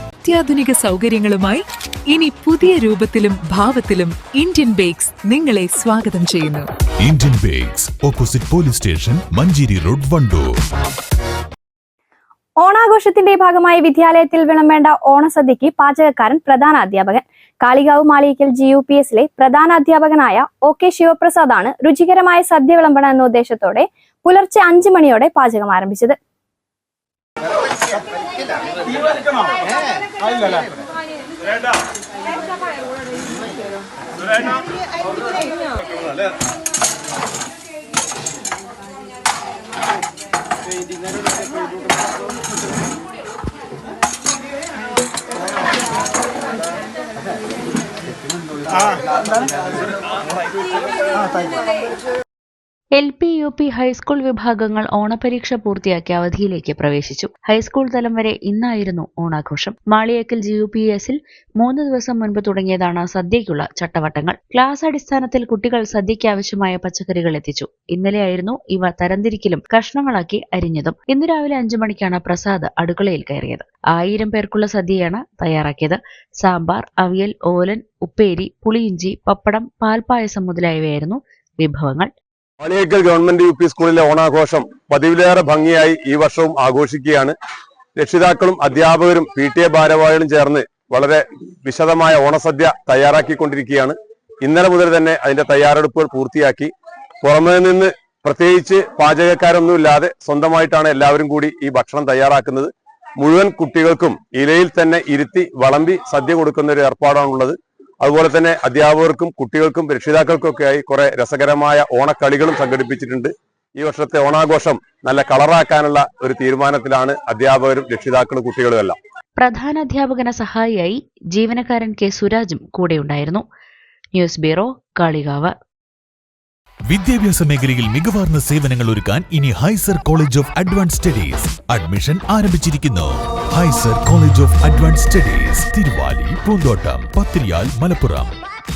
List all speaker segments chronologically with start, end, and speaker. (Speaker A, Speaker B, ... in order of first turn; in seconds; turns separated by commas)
Speaker A: 0.2-6.7, Speaker B: 7.0-10.5, Speaker C: 12.6-26.1, Speaker D: 53.0-82.1, Speaker E: 82.6-87.3, Speaker E: 88.0-96.7, Speaker E: 97.2-119.0, Speaker D: 119.4-123.4, Speaker D: 124.1-125.5, Speaker B: 126.9-138.3